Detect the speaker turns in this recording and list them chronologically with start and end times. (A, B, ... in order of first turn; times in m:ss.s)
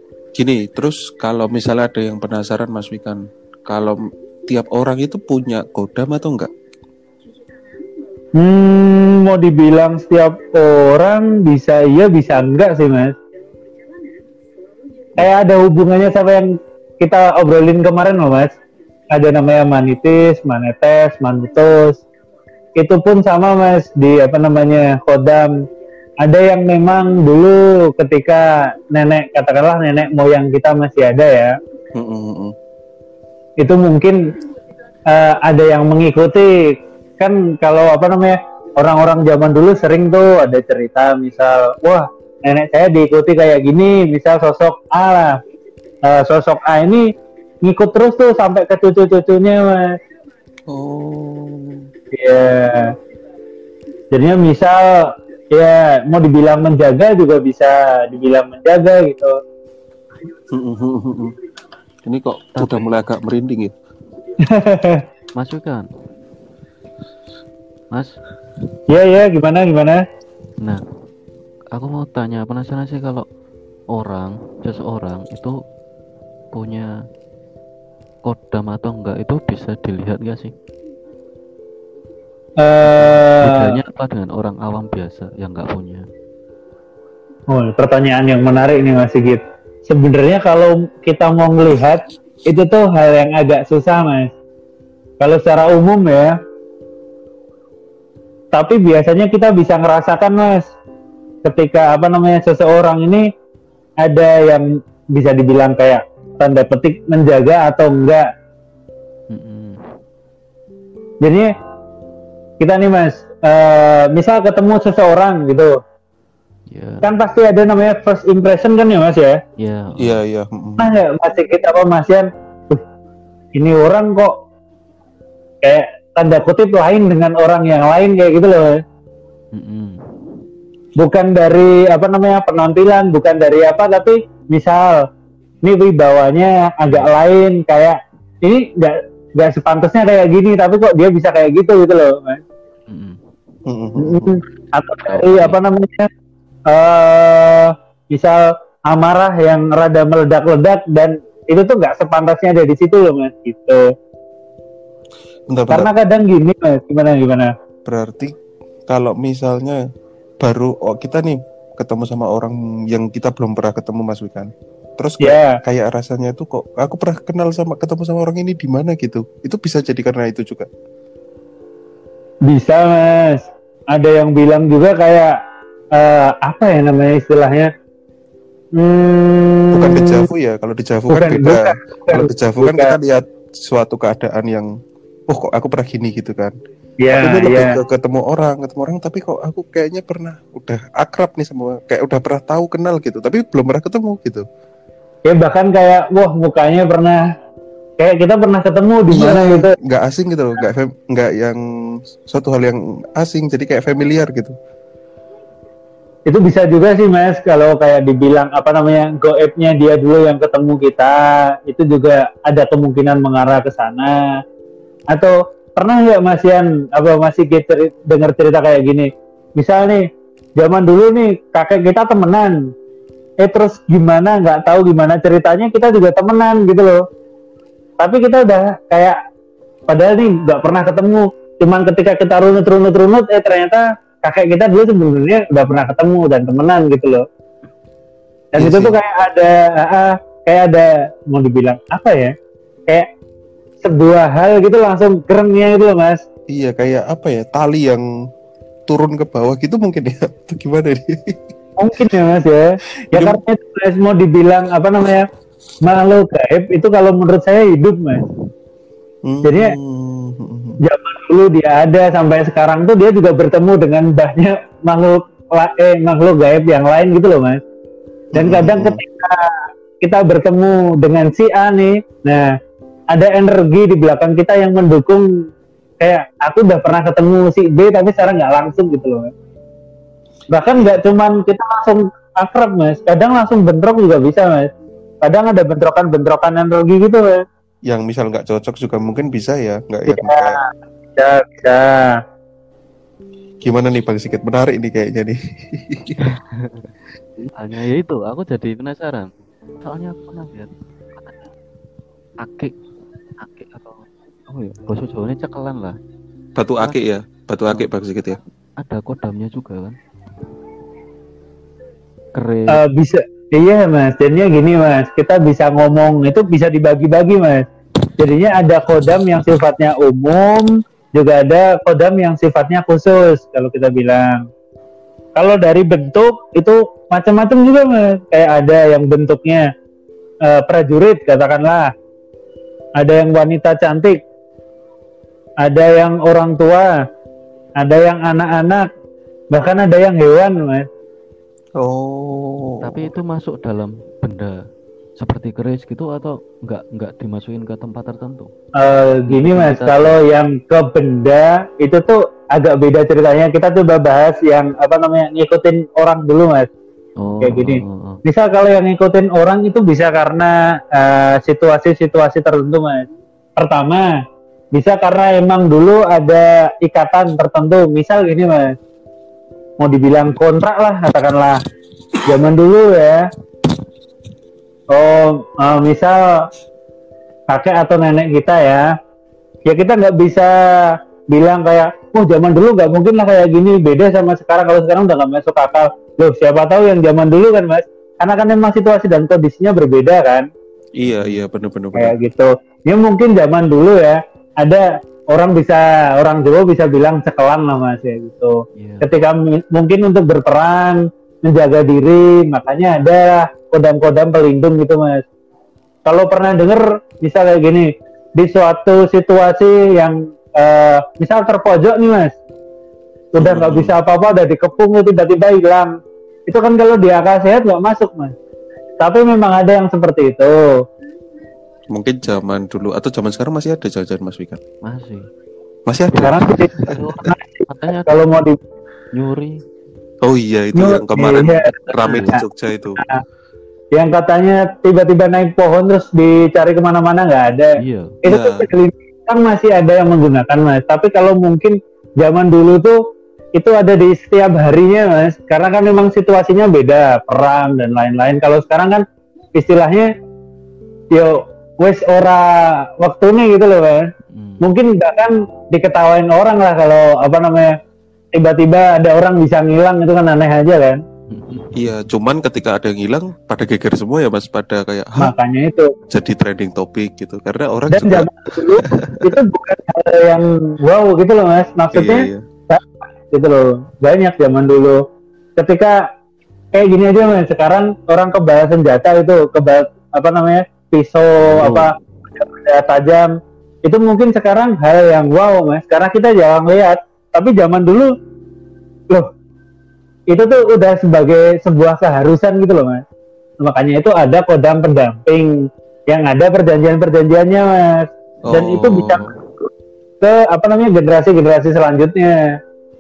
0:00.4-0:06.5 A
0:08.4-0:13.2 B
0:15.2-0:18.5 B
0:19.1-0:22.0 B
0:22.8-0:25.5 B
0:26.2-0:31.6 B
0:32.0-0:32.5 A
0:33.6-0:34.2 B
0:35.1-0:45.4 B
0:46.1-0:47.1 B
0:47.6-0:50.0 B
0:50.7-0:51.9 A
0:52.1-0:52.9 B
0:54.1-0:59.4 B
1:00.5-1:01.4 A
1:02.0-1:03.7 A
1:02.6-1:03.0 C
1:04.4-1:05.0 B
1:05.3-1:05.9 C
1:07.9-1:08.2 C
1:08.9-1:10.0 B
1:11.7-1:13.2 C
1:13.9-1:15.6 C
1:16.5-1:16.9 C
1:18.2-1:20.5 C
1:22.6-1:23.8 B
1:22.9-1:26.0 C
1:27.5-1:34.3 B
1:35.2-1:36.4 B
1:38.5-1:40.7 B
1:41.4-1:43.3 B
1:44.0-1:48.3 B
1:49.3-1:49.9 C
1:51.2-1:51.5 B
1:52.6-1:55.8 B
1:56.7-1:57.1 C
1:57.0-1:59.4 B
1:59.6-2:00.2 C
2:00.0-2:00.9 A
2:00.8-2:02.8 B
2:03.6-2:04.3 B
2:05.6-2:08.8 B
2:09.5-2:10.4 C
2:11.0-2:15.0 B
2:15.6-2:22.4 B
2:22.9-2:23.2 C
2:23.7-2:24.4 A
2:24.0-2:26.1 B
2:25.1-2:25.6 C
2:26.7-2:33.8 B
2:35.5-2:35.9 A
2:35.7-2:37.5 B
2:37.8-2:38.3 A
2:38.9-2:39.8 A
2:40.4-2:50.7 A
2:45.2-2:45.6 B
2:52.5-2:55.4 B
2:56.0-2:57.7 B
2:58.8-3:00.2 B
2:59.7-3:04.7 A
3:01.1-3:03.0 B
3:05.3-3:06.5 A
3:07.0-3:07.8 B
3:07.1-3:14.4 A
3:15.3-3:17.2 B
3:18.0-3:19.7 B
3:19.1-3:24.6 A
3:26.3-3:34.2 B
3:35.1-3:42.7 B
3:43.4-3:47.0 B
3:48.0-3:49.2 B
3:49.9-3:57.2 B
3:58.5-4:02.3 B
3:58.6-3:59.0 A
4:03.8-4:06.2 B
4:06.5-4:08.0 A
4:08.9-4:11.4 A
4:11.8-4:15.3 B
4:13.1-4:13.4 A
4:15.8-4:18.2 B
4:19.2-4:20.8 A
4:19.4-4:19.8 B
4:20.8-4:27.6 B
4:28.3-4:29.0 A
4:28.4-4:29.5 B
4:30.0-4:32.5 B
4:33.1-4:35.2 B
4:36.0-4:39.3 B
4:40.5-4:44.7 B
4:45.2-4:47.4 B
4:47.9-4:50.6 A
4:50.1-4:50.7 B
4:51.2-4:52.1 B
4:53.6-4:56.2 A
4:56.2-4:56.9 C
4:57.6-4:59.3 C
4:59.8-5:01.4 C
5:02.4-5:02.7 C
5:03.4-5:06.0 C
5:06.6-5:08.4 A
5:08.8-5:10.0 C
5:12.4-5:12.8 C
5:12.7-5:17.7 B
5:18.2-5:24.4 B
5:25.4-5:29.7 B
5:30.4-5:31.9 B
5:33.0-5:34.2 B
5:35.6-5:36.9 B
5:37.8-5:38.9 B
5:39.5-5:40.9 B
5:41.8-5:43.1 A
5:42.8-5:44.6 C
5:45.2-5:48.5 C
5:48.8-5:56.7 B
5:49.3-5:50.2 C
5:57.2-5:58.2 C
5:57.4-6:04.1 B
6:04.7-6:08.8 B
6:09.8-6:11.6 B
6:12.2-6:13.2 B
6:14.9-6:16.4 B
6:17.5-6:18.9 B
6:19.7-6:30.5 B
6:31.0-6:32.2 A
6:31.0-6:31.5 C
6:32.0-6:45.2 B
6:38.8-6:39.1 C
6:46.1-6:52.4 B
6:53.4-6:55.9 B
6:53.4-6:54.0 A
6:56.5-6:58.3 B
6:59.0-7:00.6 B
7:01.9-7:04.6 A
7:04.8-7:05.2 C
7:05.9-7:07.3 A
7:06.1-7:08.2 C
7:06.2-7:08.6 B
7:09.1-7:09.6 C
7:10.2-7:13.0 A
7:10.8-7:12.4 B
7:12.0-7:12.4 C
7:13.9-7:23.0 B
7:17.8-7:18.1 C
7:18.2-7:18.7 A
7:23.6-7:29.0 B
7:29.6-7:30.1 B
7:31.1-7:34.1 B
7:34.3-7:34.6 C
7:34.6-7:37.7 B
7:38.3-7:41.0 B
7:41.3-7:42.0 C
7:41.8-7:45.3 A
7:45.2-7:45.9 B
7:46.1-7:49.4 A
7:47.9-7:55.0 B
7:51.9-7:52.4 A
7:55.6-7:56.0 B
7:56.7-8:03.3 B
8:01.5-8:01.9 A
8:03.8-8:08.1 B
8:10.3-8:13.0 B
8:13.6-8:15.5 B
8:16.1-8:19.2 B
8:18.5-8:19.3 A
8:20.2-8:22.4 B